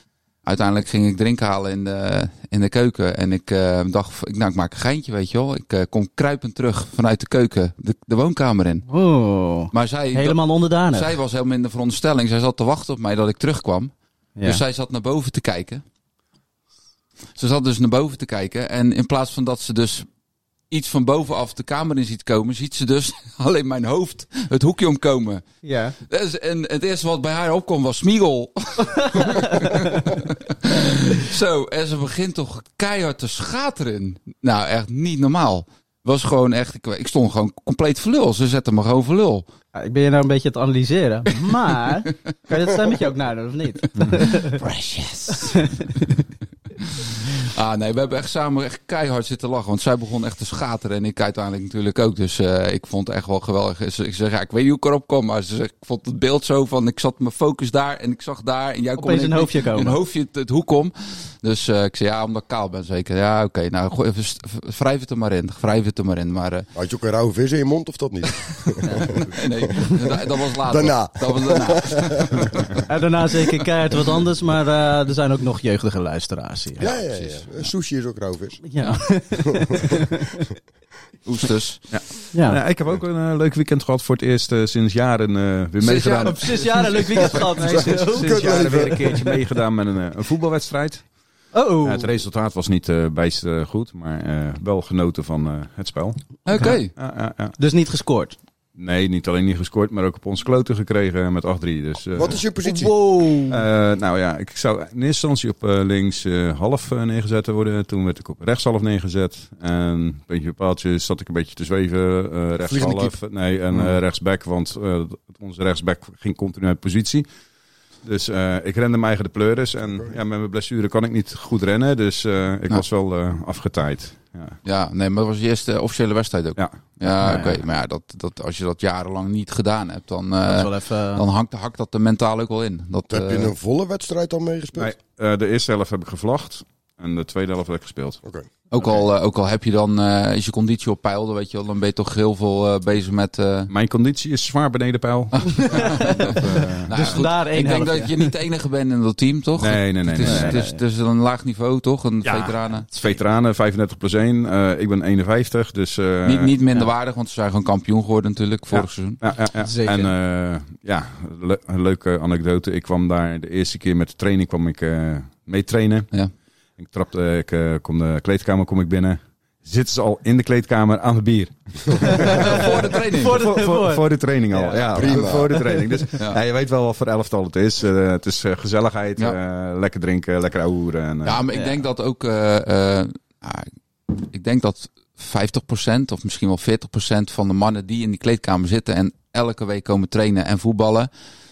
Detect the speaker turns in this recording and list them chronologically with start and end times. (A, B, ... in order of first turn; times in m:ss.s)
0:00.4-0:08.8 A
0:08.9-0:11.2 B
0:09.7-0:13.9 A
0:14.4-0:14.6 B
0:14.4-0:15.8 A
0:17.4-0:20.1 A
0:20.7-0:25.4 A
0:25.6-0:26.0 B
0:26.1-0:39.4 A
0:29.0-0:30.0 B
0:39.7-0:44.6 B
0:44.0-0:46.0 A
0:45.3-0:46.2 B
0:46.8-1:06.7 A
0:59.0-1:00.0 B
1:06.8-1:12.8 C
1:09.1-1:12.8 A
1:12.9-1:16.9 B
1:16.8-1:18.6 C
1:18.7-1:20.5 B
1:19.3-1:19.8 C
1:21.2-1:21.9 A
1:21.9-1:31.0 D
1:22.3-1:22.6 B
1:25.8-1:27.0 A
1:26.2-1:29.3 B
1:26.9-1:29.3 C
1:31.5-1:32.1 B
1:31.8-1:37.5 D
1:36.4-1:36.9 A
1:36.5-1:36.8 B
1:37.6-1:38.4 B
1:38.8-1:42.4 D
1:42.1-1:42.9 C
1:42.6-1:43.6 B
1:43.5-1:57.3 D
1:52.7-1:53.1 C
1:58.0-2:04.6 D
2:04.6-2:13.5 A
2:06.6-2:07.4 D
2:07.2-2:07.6 B
2:10.4-2:11.2 B
2:13.1-2:14.9 C
2:14.8-2:18.2 D
2:18.2-2:18.5 C
2:18.7-2:23.7 A
2:23.7-2:27.1 D
2:25.6-2:26.1 B
2:25.6-2:33.0 A
2:26.9-2:28.3 B
2:29.6-2:30.6 D
2:30.2-2:30.8 B
2:32.2-2:36.5 D
2:36.2-2:39.2 A
2:38.7-2:46.1 D
2:39.5-2:40.1 B
2:46.8-2:52.7 D
2:52.0-2:55.9 B
2:52.2-2:53.5 A
2:53.3-3:01.4 D
2:54.9-2:55.6 C
3:01.2-3:11.1 A
3:01.5-3:01.8 B